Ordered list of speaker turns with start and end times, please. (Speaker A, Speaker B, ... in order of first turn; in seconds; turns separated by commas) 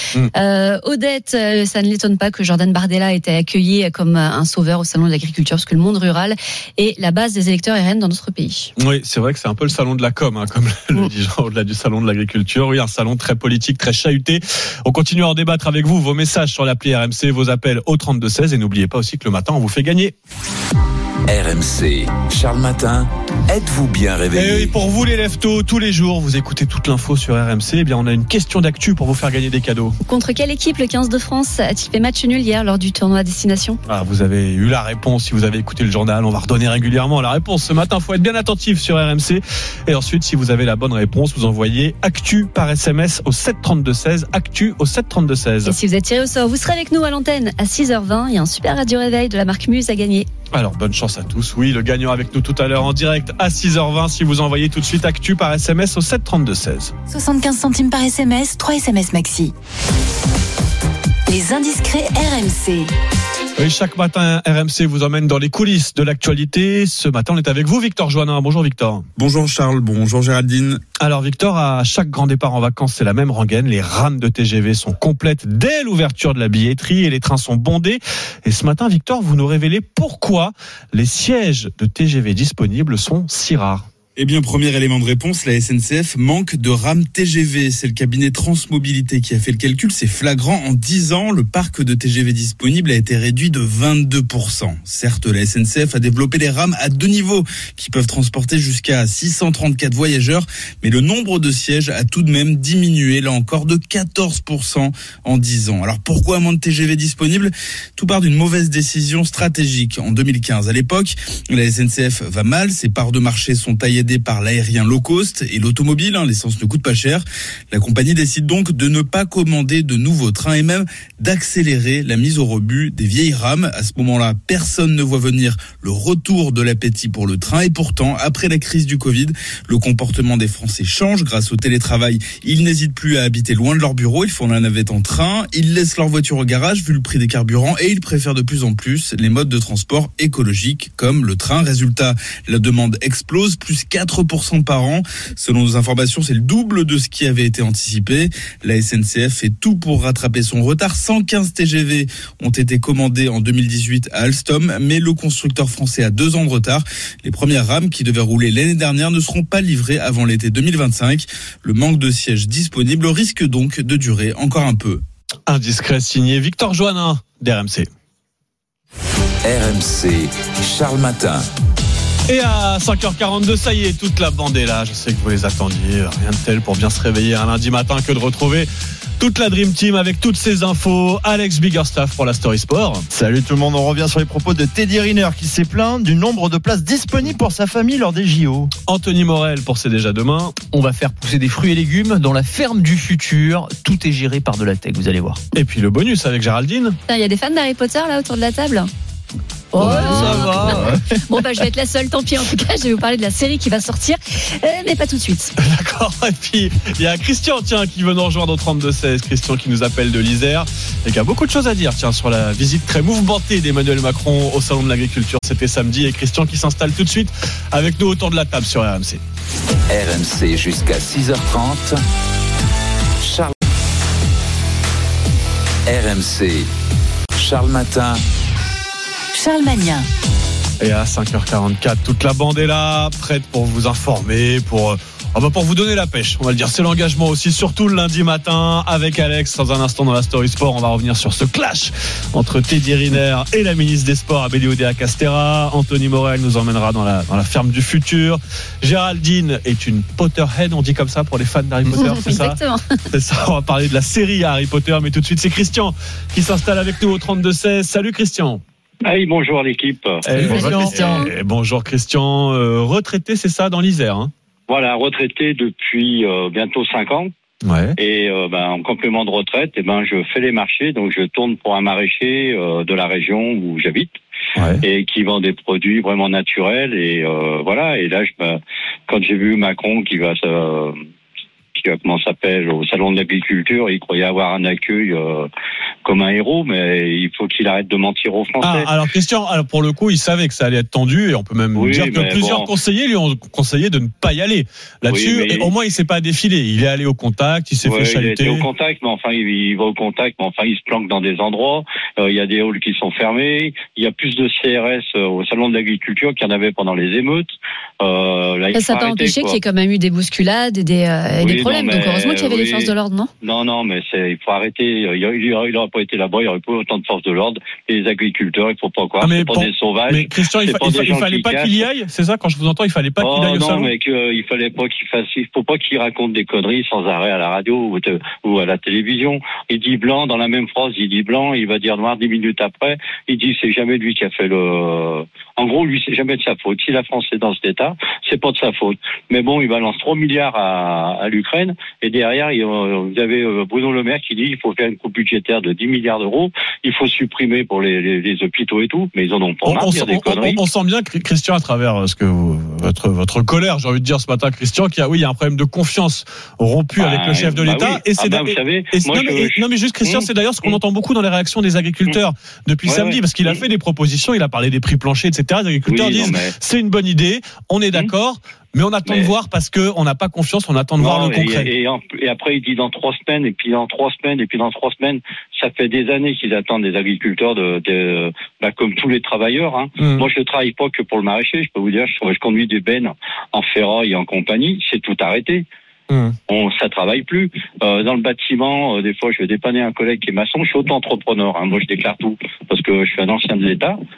Speaker A: 0.3-8.7, Speaker B: 8.8-20.1, Speaker C: 21.3-24.7, Speaker B: 24.3-29.9, Speaker A: 30.1-33.8, Speaker B: 33.9-45.7, Speaker A: 45.6-50.3, Speaker B: 50.5-56.9, Speaker D: 57.1-59.5, Speaker D: 61.3-62.9, Speaker B: 63.6-69.1, Speaker E: 69.2-70.8, Speaker B: 71.0-83.8, Speaker E: 84.2-165.0, Speaker B: 165.5-167.9, Speaker C: 169.4-171.4, Speaker B: 172.3-178.7, Speaker B: 179.2-183.0, Speaker F: 183.1-188.7, Speaker B: 188.9-190.5, Speaker G: 190.7-195.4, Speaker B: 195.5-197.0, Speaker A: 197.1-198.9, Speaker A: 199.7-205.5, Speaker B: 199.8-200.9, Speaker B: 205.6-219.2, Speaker C: 219.9-222.0, Speaker C: 223.2-223.5, Speaker C: 225.8-226.7, Speaker C: 227.4-228.2, Speaker D: 229.3-230.1, Speaker B: 230.8-252.6, Speaker A: 251.9-252.8, Speaker B: 253.1-258.6, Speaker H: 259.0-261.1, Speaker B: 260.2-264.3, Speaker A: 260.4-261.2, Speaker H: 264.7-267.3, Speaker B: 267.6-267.9, Speaker H: 268.0-274.1, Speaker B: 274.6-274.8, Speaker H: 274.8-281.0, Speaker H: 281.8-285.5, Speaker H: 286.1-288.9, Speaker B: 288.6-298.6, Speaker H: 291.7-292.7, Speaker H: 295.1-295.7, Speaker H: 297.8-309.6, Speaker A: 308.7-313.3, Speaker H: 311.4-312.9, Speaker H: 313.4-321.8, Speaker B: 319.2-323.9, Speaker H: 323.2-350.6, Speaker B: 349.7-371.7, Speaker H: 357.0-360.8, Speaker H: 362.8-363.6, Speaker H: 365.9-366.5, Speaker H: 371.0-385.6, Speaker B: 380.0-380.3, Speaker B: 386.1-386.4, Speaker H: 386.5-394.0